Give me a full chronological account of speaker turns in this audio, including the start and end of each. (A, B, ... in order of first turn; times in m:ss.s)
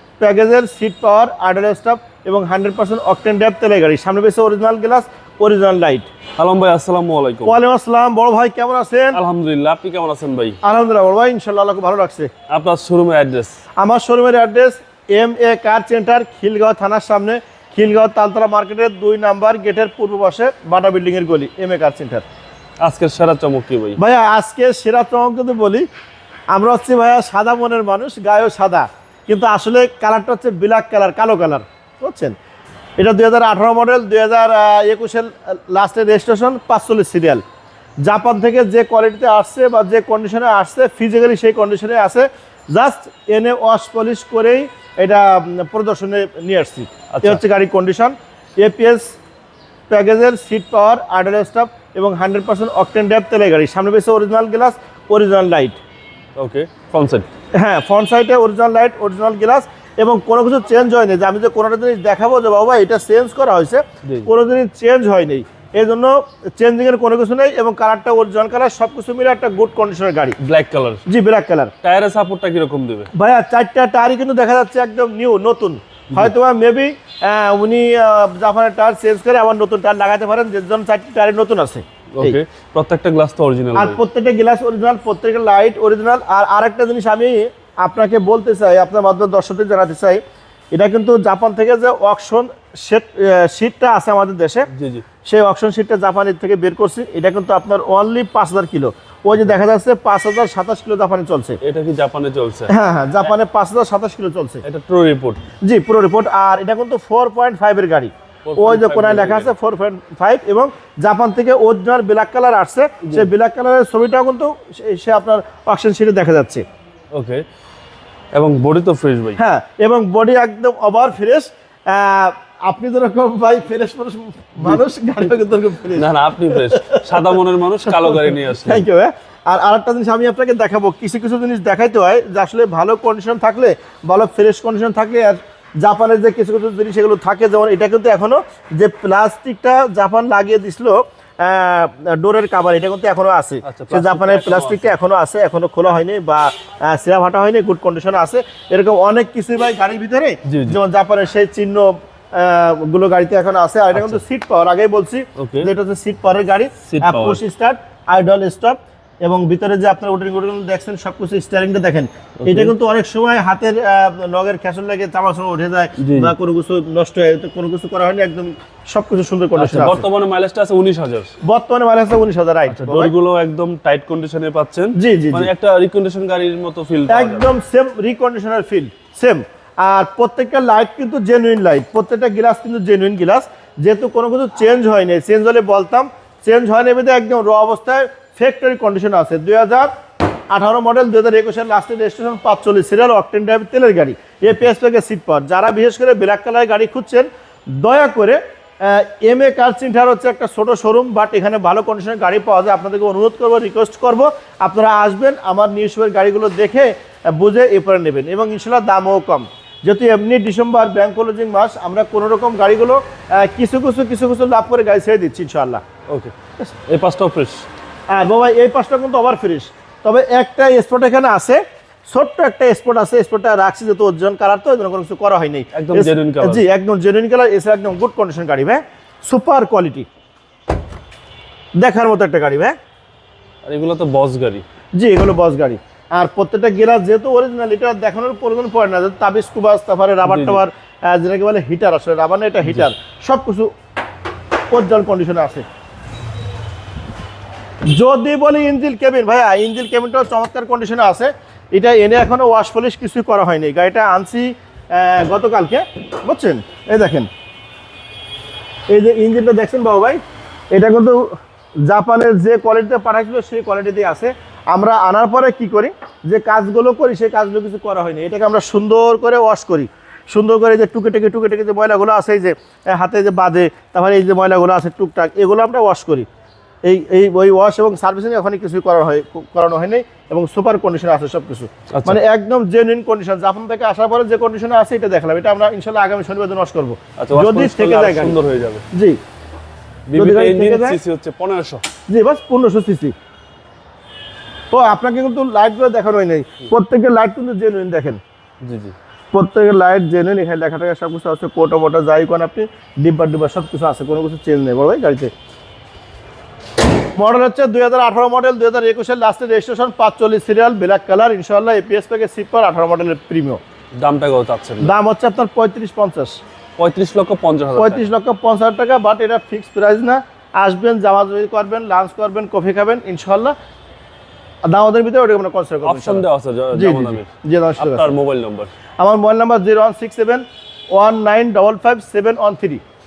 0:00.2-0:06.1 A
0:06.4-0:07.6 B
0:07.5-0:09.2 A
0:09.1-0:10.6 B
0:10.6-0:12.3 A
0:12.5-0:13.6 B
0:13.8-0:22.2 A
0:22.8-0:24.0 B
0:24.0-0:25.9 A
0:26.5-0:32.4 A
0:33.0-0:37.4 A
0:38.0-0:49.2 A
0:47.1-0:47.4 B
0:49.9-0:55.8 A
0:56.4-0:57.3 B
0:57.6-1:10.4 A
1:10.4-1:11.0 B
1:11.1-1:11.7 A
1:11.8-1:13.1 B
1:13.1-1:22.4 A
1:22.2-1:24.0 B
1:23.8-1:30.2 A
1:30.7-1:34.7 A
1:34.7-1:35.1 B
1:35.2-1:41.6 A
1:41.6-1:42.7 B
1:42.7-1:44.6 A
1:44.6-1:45.4 B
1:45.6-1:56.6 A
1:48.4-1:49.5 B
1:57.1-1:57.4 B
1:58.3-1:59.4 B
1:59.4-2:50.0 A
2:06.0-2:08.8 B
2:23.6-2:24.9 B
2:30.5-2:30.8 B
2:33.9-2:34.2 B
2:35.4-2:35.7 B
2:36.9-2:37.4 B
2:42.4-2:42.7 B
2:46.0-2:46.3 B
2:49.6-2:51.3 B
2:51.4-2:53.1 A
2:52.7-2:57.5 B
2:55.0-2:55.5 A
2:57.1-3:09.9 A
3:10.5-3:35.8 A
3:36.1-3:36.3 B
3:36.9-3:37.7 B
3:38.1-3:50.1 A
3:45.7-3:46.6 B
3:51.8-3:52.8 A
3:53.6-3:54.6 B
3:55.0-4:03.7 A
4:00.2-4:00.6 B
4:04.7-4:05.6 A
4:07.9-4:17.3 A
4:18.9-4:20.2 A
4:20.7-4:36.3 A
4:36.8-4:48.4 A
4:41.9-4:42.2 B
4:47.2-4:48.8 B
4:48.9-4:49.2 A
4:50.1-4:51.8 B
4:50.2-4:51.0 A
4:52.1-4:53.1 A
4:54.7-4:58.2 A
4:58.6-4:59.0 B
4:59.3-5:05.3 A
5:07.2-5:13.6 A
5:14.0-5:14.9 B
5:14.8-5:16.4 A
5:16.8-5:18.0 B
5:17.8-5:23.6 A
5:24.6-5:28.1 A
5:25.8-5:28.7 B
5:29.0-5:32.8 A